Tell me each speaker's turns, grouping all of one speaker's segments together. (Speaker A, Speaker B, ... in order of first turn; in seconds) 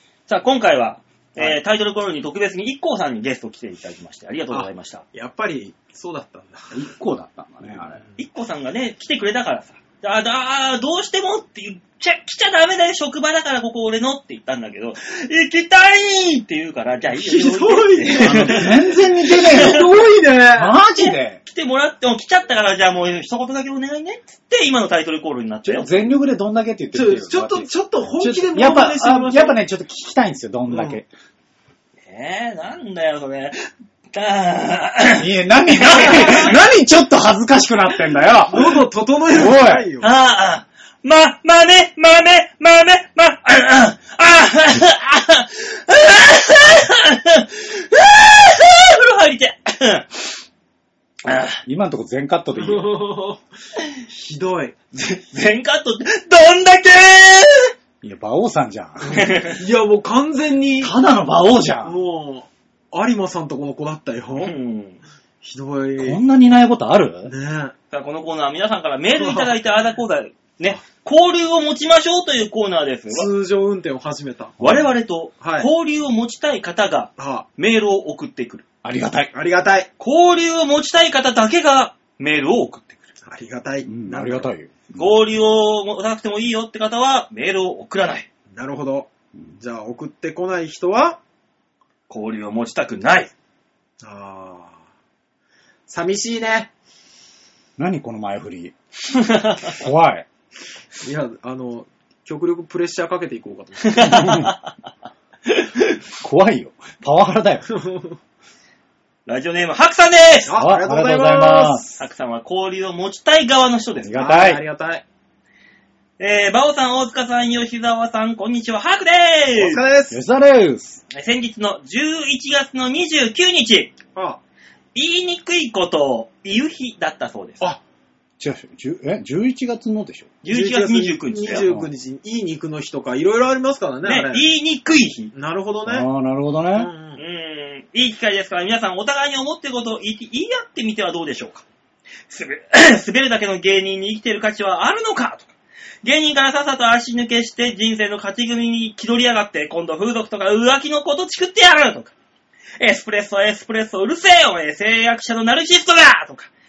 Speaker A: 0.3-5.0, 8.2-19.8, 20.9-25.9, 32.1-36.5, 40.0-50.1, 51.2-51.6, 54.9-57.7, 59.1-59.6, 64.4-65.0, 67.9-73.3, 74.6-78.7, 80.0-83.0, 84.9-88.3, 92.1-93.3, 99.1-99.7, 103.8-104.7, 105.5-106.0, 109.3-110.5, 112.0-114.2, 116.2-119.8, 121.1-124.0, 125.0-127.7, 130.4-131.7, 134.0-135.3, 137.2-141.7, 142.3-152.1, 152.8-156.5
Speaker B: 4.5-6.8, 7.8-8.1, 17.1-20.8, 26.9-29.6, 30.7-31.0, 38.5-40.1, 52.5-53.4, 54.1-54.8, 59.1-60.9, 61.8-64.5, 65.4-66.2, 67.3-67.7, 69.2-69.5, 73.1-74.6, 75.4-75.7, 77.2-77.5, 79.3-79.9, 83.2-84.5, 88.5-91.2, 94.0-94.8, 95.9-96.7, 101.0-104.4, 107.7-108.2, 110.5-112.0, 114.1-115.0, 119.6-120.2, 124.2-124.4, 130.5-134.4, 135.3-136.1, 136.7-137.2
Speaker C: 6.7-8.0, 18.2-20.0, 20.5-21.4, 25.7-31.1, 35.2-38.8, 39.3-39.9, 51.5-52.9, 58.0-59.3, 60.8-62.0, 66.0-67.3, 74.6-74.9, 78.8-79.3, 83.9-85.1, 97.8-98.8, 99.6-100.3, 104.0-104.5, 106.2-107.7, 110.5-111.8, 114.0-114.6, 120.1-121.0, 128.4-130.3, 131.6-131.9, 135.9-136.9